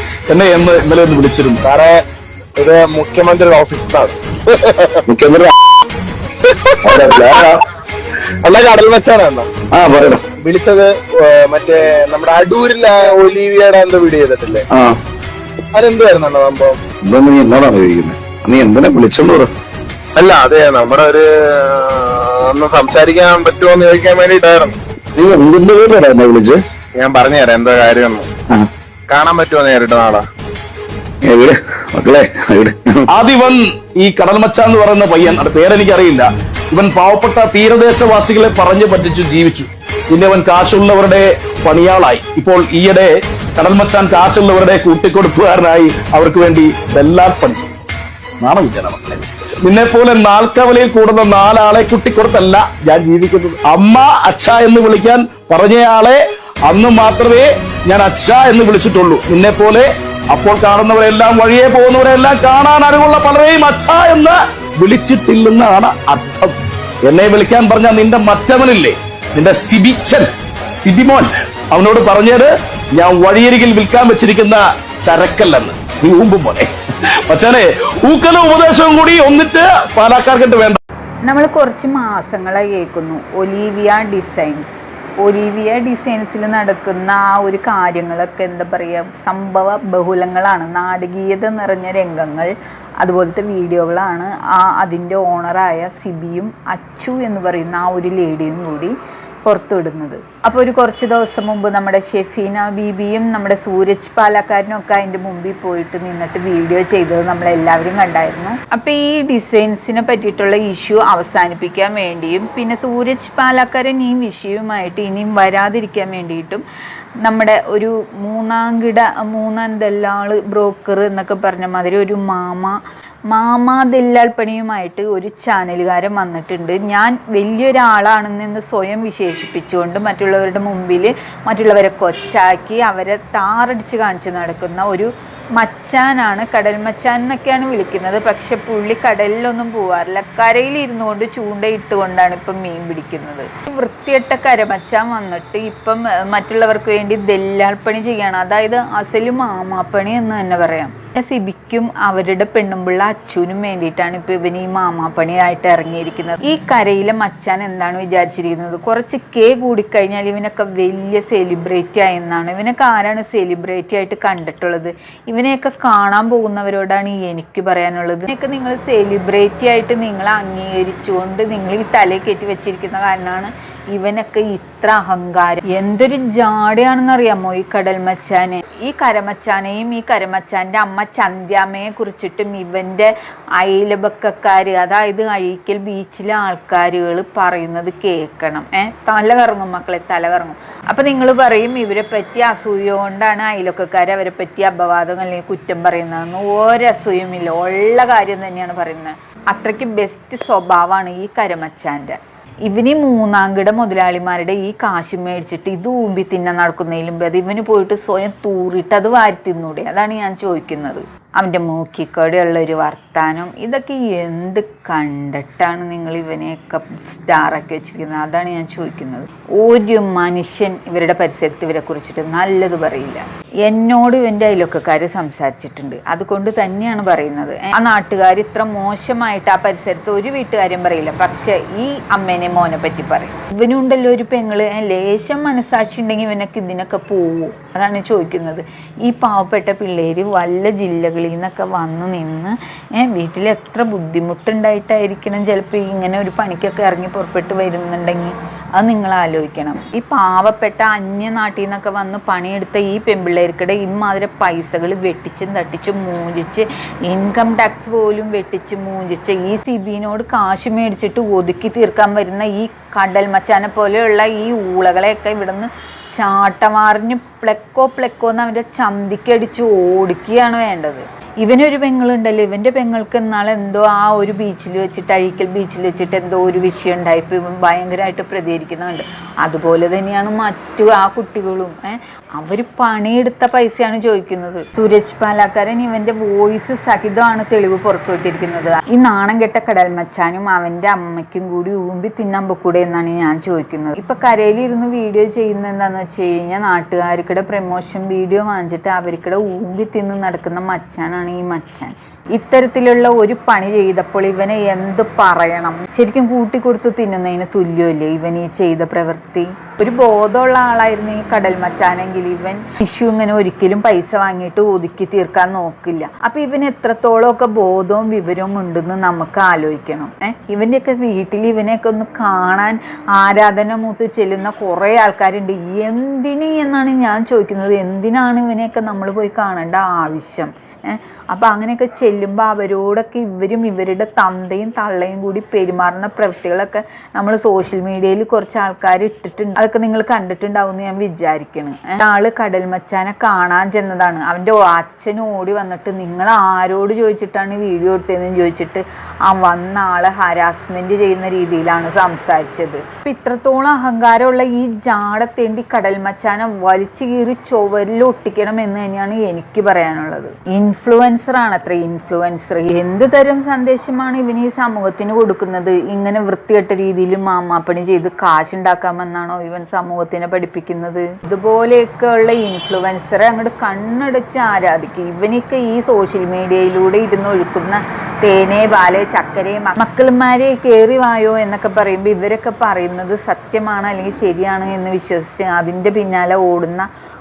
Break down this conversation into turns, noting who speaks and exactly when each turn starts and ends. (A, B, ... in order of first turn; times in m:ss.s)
0:00.3-0:01.6 A
0:01.6-0:02.0 B
0:02.6-0:05.0 B
0:05.1-0:05.6 C
0:06.4-0:07.4 B
0:06.8-0:07.6 C
0:08.4-0:09.5 B
0:09.7-0:10.2 C
0:10.4-0:14.7 B
0:14.7-0:15.0 C
0:15.7-0:16.8 B
0:17.0-0:19.5 C
0:20.2-0:24.8 B
0:25.2-0:26.6 C
0:27.0-0:28.3 B
0:29.1-0:30.2 B
0:31.2-0:33.1 C
0:33.1-0:47.7 A
0:48.4-1:06.5 A
1:07.0-1:16.7 A
1:17.3-1:20.8 A
1:21.2-1:56.6 D
1:57.2-2:02.8 D
2:03.3-6:26.9 D